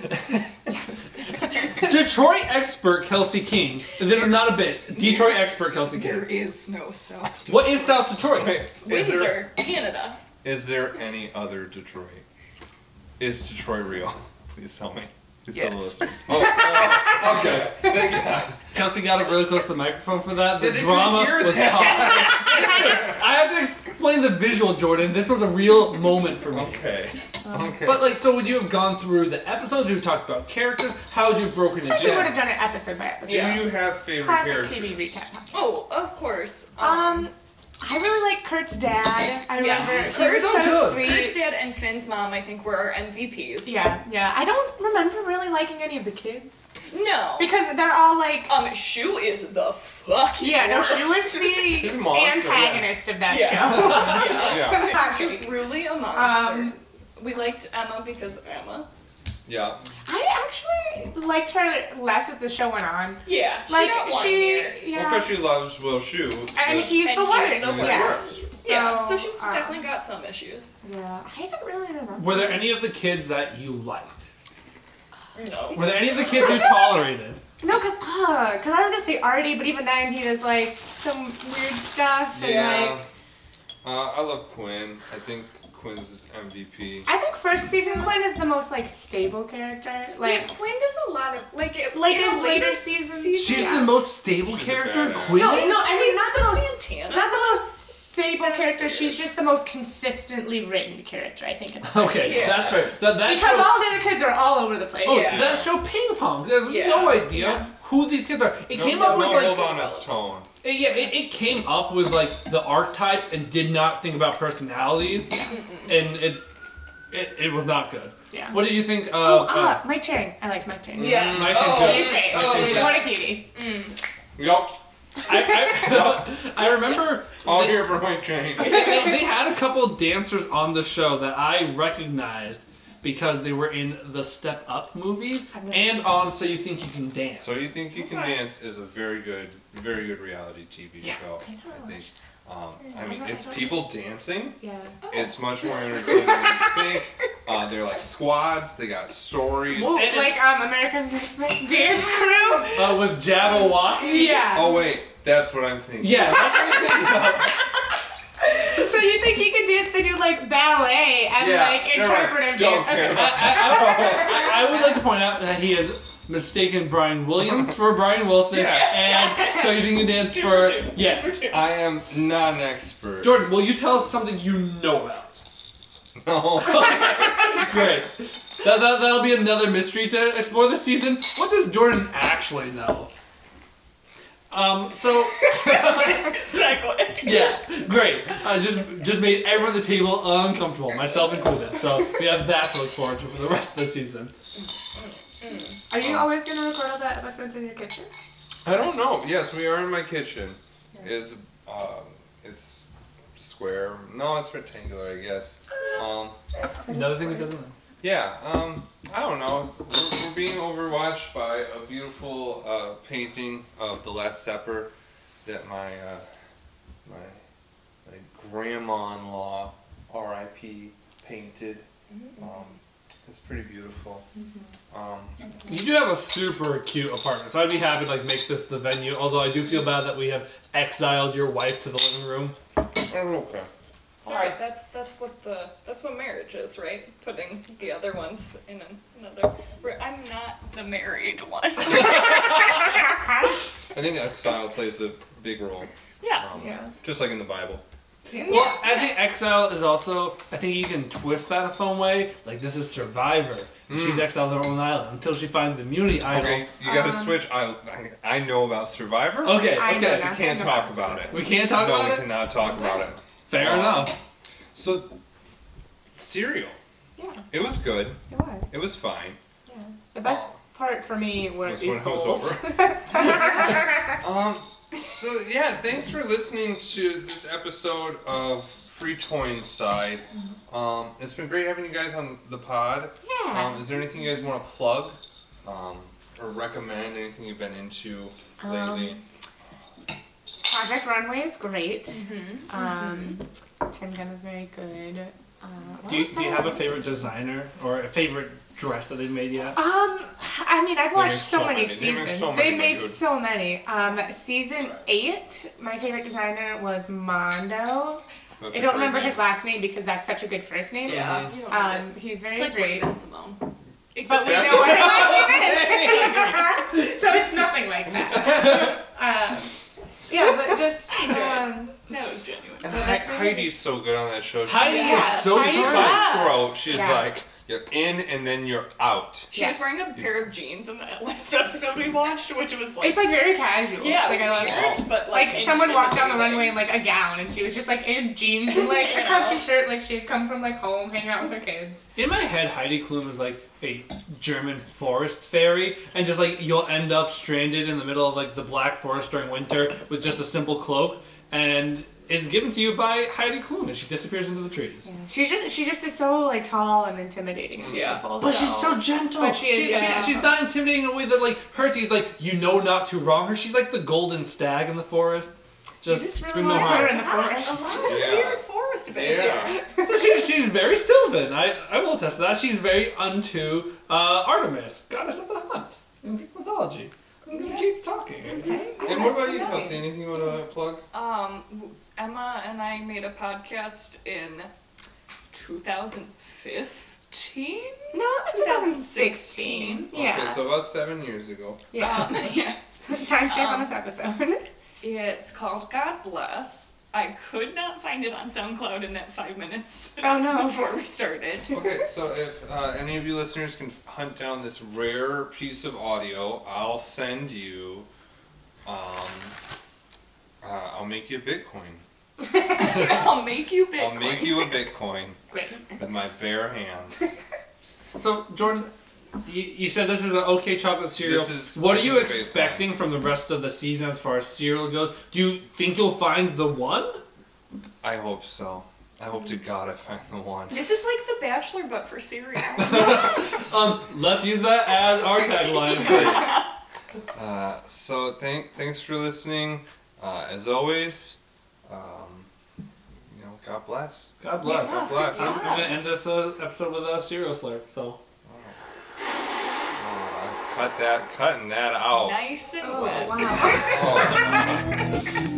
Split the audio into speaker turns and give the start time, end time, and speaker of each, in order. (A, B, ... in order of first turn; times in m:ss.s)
0:00.7-0:01.8 A
0:01.8-0:06.3 B
0:04.2-0:08.1 C
0:07.5-0:08.6 B
0:08.2-0:09.5 D
0:08.8-0:10.2 C
0:10.4-0:12.2 D
0:13.2-0:18.7 D
0:15.5-0:16.6 C
0:16.5-0:16.9 A
0:18.7-0:26.9 B
0:20.6-0:23.2 D
0:26.5-0:28.2 D
0:27.8-0:32.4 B
0:31.8-0:35.8 A
0:32.0-0:32.3 D
0:33.2-0:33.7 C
0:33.2-0:35.2 D
0:35.5-0:37.3 C
0:36.8-0:41.4 A
0:39.5-0:43.9 C
0:39.7-0:40.2 D
0:40.0-0:41.2 B
0:43.6-0:46.7 A
0:46.9-0:47.6 C
0:47.4-0:48.6 A
0:48.4-0:51.7 C
0:50.4-0:56.8 A
0:51.7-0:53.0 D
0:53.3-0:58.9 C
0:54.4-0:55.0 D
0:59.5-0:59.8 D
1:00.1-1:05.4 A
1:03.2-1:04.9 C
1:04.9-1:08.5 D
1:06.6-1:09.8 A
1:06.8-1:10.7 C
1:10.8-1:12.8 A
1:12.2-1:14.3 B
1:15.4-1:16.6 C
1:15.7-1:17.4 B
1:16.4-1:16.7 A
1:17.6-1:23.0 A
1:22.3-1:23.0 D
1:22.4-1:22.9 C
1:23.8-1:27.1 D
1:27.1-1:30.5 A
1:27.7-1:28.2 C
1:30.2-1:33.9 C
1:31.9-1:34.0 A
1:33.4-1:35.9 B
1:34.5-1:35.6 D
1:35.3-1:39.2 C
1:35.4-1:45.5 A
1:41.8-1:43.8 B
1:42.2-1:42.9 C
1:42.3-1:42.7 D
1:45.0-1:49.7 B
1:45.0-1:45.7 C
1:45.3-1:45.7 D
1:46.6-1:47.4 C
1:47.3-1:47.7 A
1:48.7-1:50.5 D
1:48.8-1:50.2 C
1:50.6-1:56.5 B
1:55.3-1:55.6 A
1:55.5-1:56.0 C
1:57.1-1:59.8 B
1:58.3-2:03.5 A
2:00.9-2:03.1 D
2:01.0-2:03.0 C
2:01.1-2:03.1 B
2:03.5-2:04.0 C
2:04.4-2:04.8 D
2:05.3-2:08.0 B
2:05.7-2:06.4 D
2:07.4-2:09.2 D
2:08.6-2:17.7 B
2:15.5-2:16.3 A
2:17.4-2:24.6 D
2:18.0-2:18.4 A
2:21.4-2:22.1 A
2:22.8-2:23.9 A
2:24.6-2:25.0 A
2:25.0-2:26.0 C
2:25.1-2:30.2 D
2:29.7-2:33.1 A
2:29.9-2:30.4 B
2:32.7-2:34.6 B
2:33.8-2:34.9 A
2:34.5-2:37.0 D
2:36.0-2:37.7 B
2:38.4-2:44.6 A
2:41.4-2:44.6 D
2:43.1-2:51.5 B
2:48.5-2:49.0 D
2:48.6-2:51.7 C
2:51.5-2:53.5 D
2:53.2-2:55.4 B
2:56.2-2:57.6 D
2:56.6-3:03.1 B
3:04.5-3:06.4 B
3:05.5-3:07.5 C
3:07.2-3:14.3 B
3:15.0-3:15.8 C
3:15.9-3:18.1 A
3:16.0-3:16.3 D
3:18.6-3:26.4 D
3:26.5-3:27.5 A
3:26.9-3:27.8 B
3:28.0-3:34.9 D
3:35.4-3:36.3 D
3:37.1-3:37.4 D
3:38.0-3:41.8 D
3:42.4-3:44.3 D
3:44.9-3:45.4 D
3:45.7-3:52.6 B
3:53.0-3:53.7 D
3:54.2-4:03.0 C
3:54.3-3:54.5 D
4:03.9-4:07.8 D
4:06.2-4:06.5 C
4:06.6-4:06.9 A
4:08.3-4:08.9 A
4:08.4-4:09.1 C
4:08.5-4:16.7 B
4:13.9-4:14.3 D
4:16.2-4:24.2 D
4:16.8-4:17.4 A
4:19.4-4:20.4 B
4:19.6-4:21.8 A
4:21.3-4:22.4 B
4:23.5-4:24.2 B
4:24.8-4:25.1 D
4:26.2-4:26.8 D
4:27.2-4:27.7 A
4:27.5-4:29.4 D
4:28.3-4:28.7 A
4:29.7-4:34.0 A
4:30.2-4:30.6 D
4:31.6-4:49.2 D
4:43.2-4:44.0 A
4:48.6-4:49.2 A
4:50.6-4:57.2 A
4:52.1-4:53.4 C
4:56.1-4:59.8 B
4:59.8-5:13.1 A
5:01.2-5:01.8 B
5:01.2-5:03.3 D
5:08.6-5:09.5 D
5:11.0-5:16.1 C
5:11.1-5:11.5 D
5:14.3-5:19.7 A
5:14.4-5:16.8 D
5:18.1-5:19.0 D
5:20.3-5:21.9 A
5:21.1-5:23.2 C
5:22.8-5:29.5 D
5:22.8-5:23.8 A
5:24.7-5:26.3 B
5:24.8-5:27.3 A
5:24.8-5:27.1 C
5:29.5-5:33.4 C
5:29.5-5:30.1 A
5:33.0-5:42.0 A
5:34.0-5:36.9 C
5:34.6-5:35.1 D
5:38.7-5:39.7 C
5:42.2-5:55.1 B
5:55.0-6:00.6 A
5:57.8-5:58.2 D
5:57.9-5:58.2 C
5:58.4-6:07.3 B
5:59.8-6:00.4 C
6:06.0-6:08.3 A
6:06.6-6:09.8 C
6:08.0-6:09.8 D
6:09.9-6:10.4 A
6:10.0-6:18.8 B
6:17.5-6:17.9 C
6:18.4-6:20.2 A
6:18.6-6:20.0 C
6:19.0-6:21.0 D
6:21.1-6:24.7 C
6:25.5-6:30.1 C
6:28.1-6:30.8 A
6:30.1-6:31.9 D
6:31.9-6:34.7 A
6:32.0-6:33.9 C
6:35.0-6:41.7 C
6:40.2-6:41.1 A
6:41.7-6:48.1 D
6:48.8-6:49.6 D
6:50.6-6:52.0 D
6:52.7-6:54.7 C
6:54.0-6:55.4 D
6:55.5-6:55.8 A
6:56.0-6:57.3 D
6:58.2-6:58.9 B
6:59.4-7:07.2 B
7:01.2-7:02.9 D
7:08.0-7:10.8 D
7:10.7-7:13.4 C
7:12.8-7:16.5 B
7:16.0-7:16.6 D
7:16.1-7:16.5 C
7:17.3-7:22.5 D
7:23.3-7:25.8 D
7:24.4-7:28.2 B
7:24.7-7:26.1 C
7:25.1-7:26.0 A
7:28.5-7:28.8 D
7:30.0-7:32.4 D
7:32.1-7:34.8 C
7:32.8-7:34.7 A
7:33.6-7:35.1 D